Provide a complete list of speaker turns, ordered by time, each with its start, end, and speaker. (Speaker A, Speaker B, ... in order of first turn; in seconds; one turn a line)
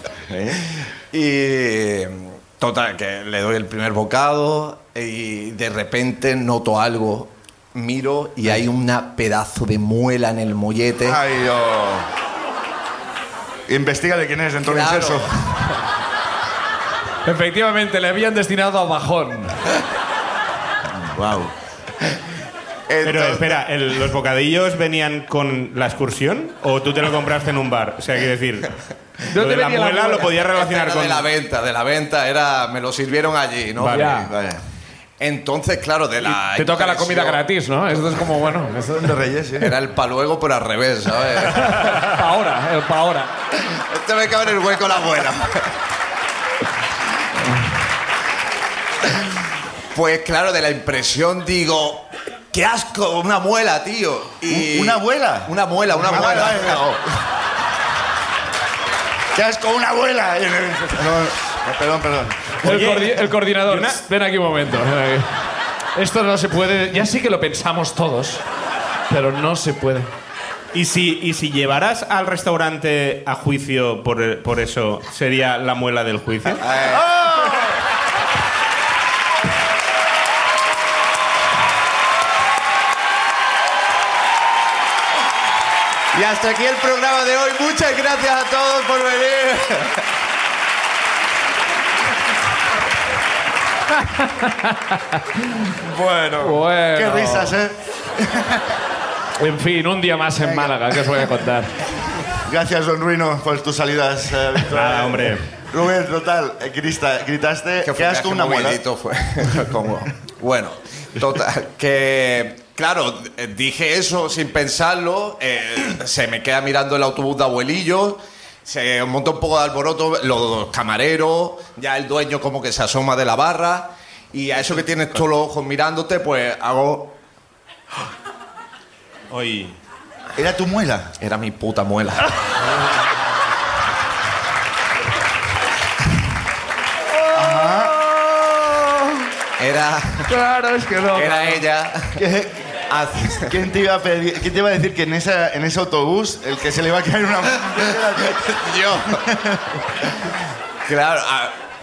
Speaker A: 0.3-0.6
Speaker B: 1.1-11.2
Speaker A: 11.0-12.1
Speaker A: 13.7-15.3
Speaker B: 14.6-15.5
Speaker C: 17.2-19.6
Speaker A: 21.0-21.5
Speaker A: 22.9-23.4
Speaker D: 23.0-28.7
Speaker B: 23.1-23.4
Speaker C: 29.3-30.4
Speaker D: 29.3-31.3
Speaker B: 30.5-34.3
Speaker C: 33.8-34.3
Speaker A: 34.2-34.6
Speaker B: 35.2-37.4
Speaker C: 36.3-39.0
Speaker A: 38.8-39.7
Speaker B: 39.6-42.0
Speaker C: 41.8-43.3
Speaker B: 43.9-45.6
Speaker B: 49.9-56.8
Speaker A: 54.5-57.0
Speaker A: 59.3-62.5
Speaker C: 62.6-65.3
Speaker D: 62.6-64.0
Speaker C: 66.0-68.4
Speaker C: 69.1-70.1
Speaker D: 70.7-76.6
Speaker B: 76.6-77.1
Speaker A: 76.8-77.8
Speaker B: 86.1-89.9
Speaker C: 94.0-95.2
Speaker A: 95.8-98.7
Speaker C: 96.4-97.5
Speaker C: 99.4-101.7
Speaker A: 100.4-101.0
Speaker A: 102.4-108.8
Speaker D: 104.7-105.5
Speaker B: 107.8-127.2
Speaker D: 129.3-129.8
Speaker A: 130.3-131.1
Speaker B: 131.2-132.3
Speaker C: 137.1-138.8
Speaker A: 137.3-137.9
Speaker B: 139.6-140.3
Speaker C: 140.3-141.6
Speaker B: 141.1-142.2
Speaker A: 142.2-142.6
Speaker B: 142.9-143.6
Speaker A: 143.3-149.6
Speaker B: 148.3-149.2
Speaker B: 150.8-151.6